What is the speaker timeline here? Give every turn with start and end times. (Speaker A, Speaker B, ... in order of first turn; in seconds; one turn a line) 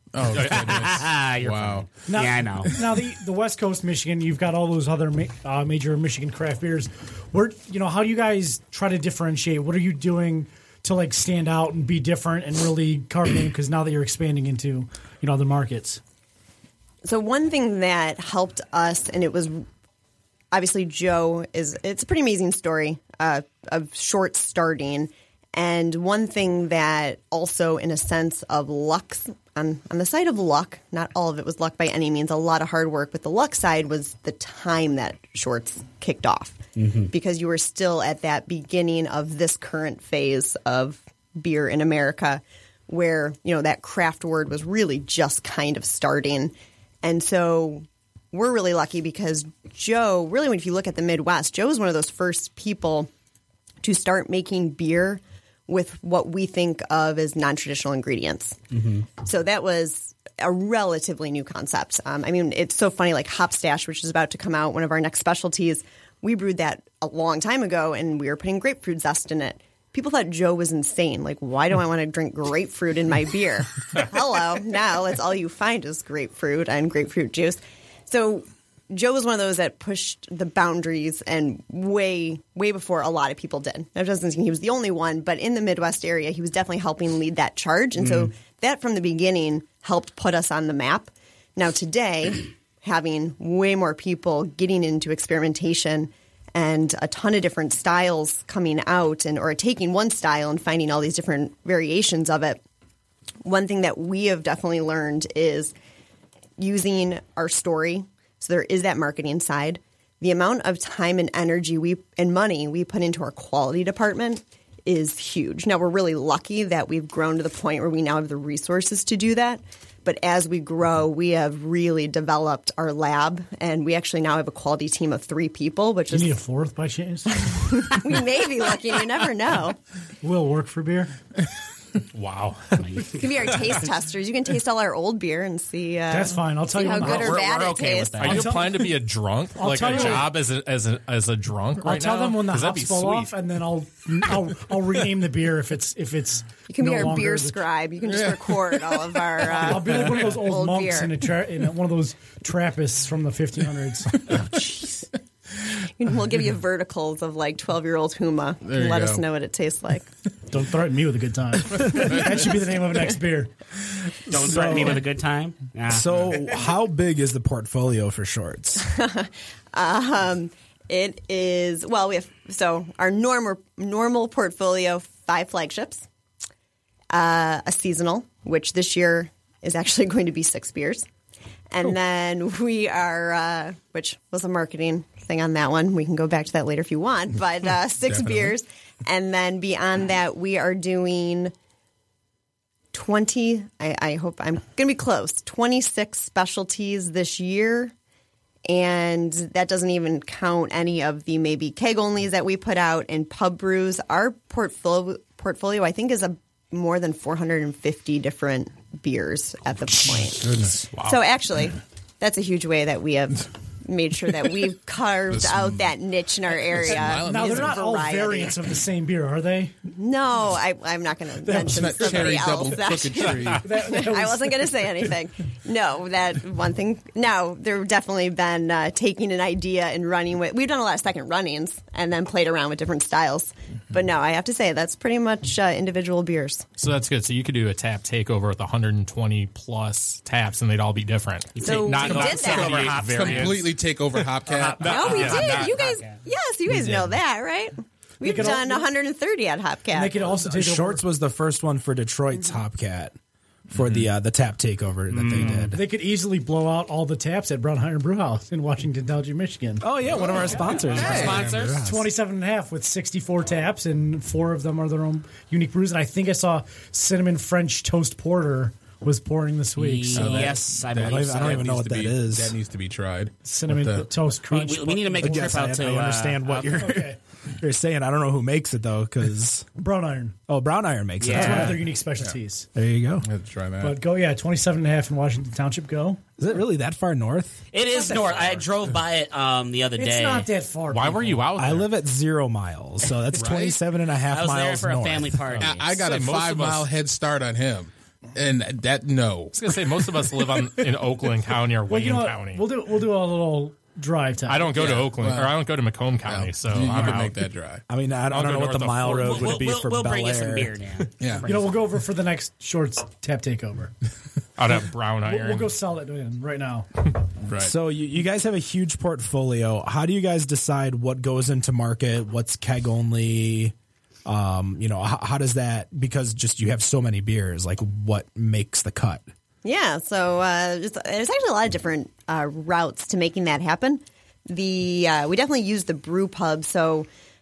Speaker A: 0.1-2.0
Speaker B: 0.3-0.8
Speaker C: 0.5-2.7
Speaker D: 2.0-16.0
Speaker E: 17.0-19.6
Speaker E: 20.5-53.1
Speaker C: 36.8-37.0
Speaker E: 53.8-102.6
Speaker E: 103.4-105.7
Speaker E: 106.6-126.3
Speaker D: 126.1-127.8
Speaker E: 127.3-129.8
Speaker D: 130.2-131.1
Speaker B: 132.1-132.8
Speaker C: 132.8-133.5
Speaker E: 133.1-138.4
Speaker D: 136.1-137.4
Speaker C: 136.9-138.6
Speaker B: 138.2-143.3
Speaker D: 138.2-138.8
Speaker D: 139.5-140.3
Speaker D: 141.8-147.6
Speaker E: 146.7-151.1
Speaker D: 149.4-154.5
Speaker E: 156.0-160.1
Speaker A: 158.6-159.2
Speaker D: 160.5-163.5
Speaker C: 164.2-166.3
Speaker F: 164.4-165.0
Speaker F: 165.9-168.8
Speaker E: 168.8-176.1
Speaker E: 177.1-181.1
Speaker E: 181.7-191.5
Speaker A: 188.1-188.5
Speaker E: 192.9-197.9
Speaker E: 198.7-218.6
Speaker A: 215.3-215.8
Speaker A: 216.7-217.8
Speaker D: 216.9-219.7
Speaker E: 219.9-236.6
Speaker D: 221.4-222.6
Speaker A: 221.5-223.7
Speaker D: 223.5-224.8
Speaker B: 236.8-245.8
Speaker C: 241.6-243.7
Speaker E: 241.6-242.9
Speaker A: 242.0-245.2
Speaker C: 244.6-246.2
Speaker E: 244.8-250.1
Speaker D: 248.2-248.9
Speaker D: 249.9-251.0
Speaker F: 250.2-253.2
Speaker F: 253.7-255.8
Speaker A: 253.8-254.1
Speaker C: 255.2-255.7
Speaker D: 255.7-259.9
Speaker F: 259.8-262.1
Speaker C: 260.8-261.8
Speaker A: 260.9-261.5
Speaker D: 261.8-270.6
Speaker C: 269.7-271.8
Speaker A: 270.1-274.1
Speaker F: 271.0-272.6
Speaker D: 273.4-275.6
Speaker C: 274.4-276.8
Speaker F: 275.1-279.7
Speaker D: 276.7-277.2
Speaker D: 279.8-280.4
Speaker F: 280.5-281.8
Speaker C: 281.2-281.8
Speaker D: 281.3-282.7
Speaker F: 282.7-283.2
Speaker A: 283.2-284.0
Speaker D: 283.8-286.3
Speaker F: 286.4-287.8
Speaker C: 287.7-290.5
Speaker D: 290.0-291.5
Speaker B: 290.9-291.9
Speaker F: 291.6-295.5
Speaker A: 293.4-293.8
Speaker C: 294.3-296.1
Speaker B: 295.5-296.9
Speaker A: 295.6-300.1
Speaker B: 299.5-302.6
Speaker D: 301.9-304.7
Speaker B: 304.5-307.4
Speaker A: 304.7-305.5
Speaker A: 306.2-307.8
Speaker F: 307.9-310.8
Speaker B: 308.3-309.6
Speaker C: 309.0-311.6
Speaker A: 311.2-311.5
Speaker D: 311.4-313.9
Speaker B: 314.6-315.7
Speaker D: 315.2-316.9
Speaker A: 317.4-317.7
Speaker F: 317.6-323.7
Speaker F: 324.2-329.2
Speaker E: 329.6-337.1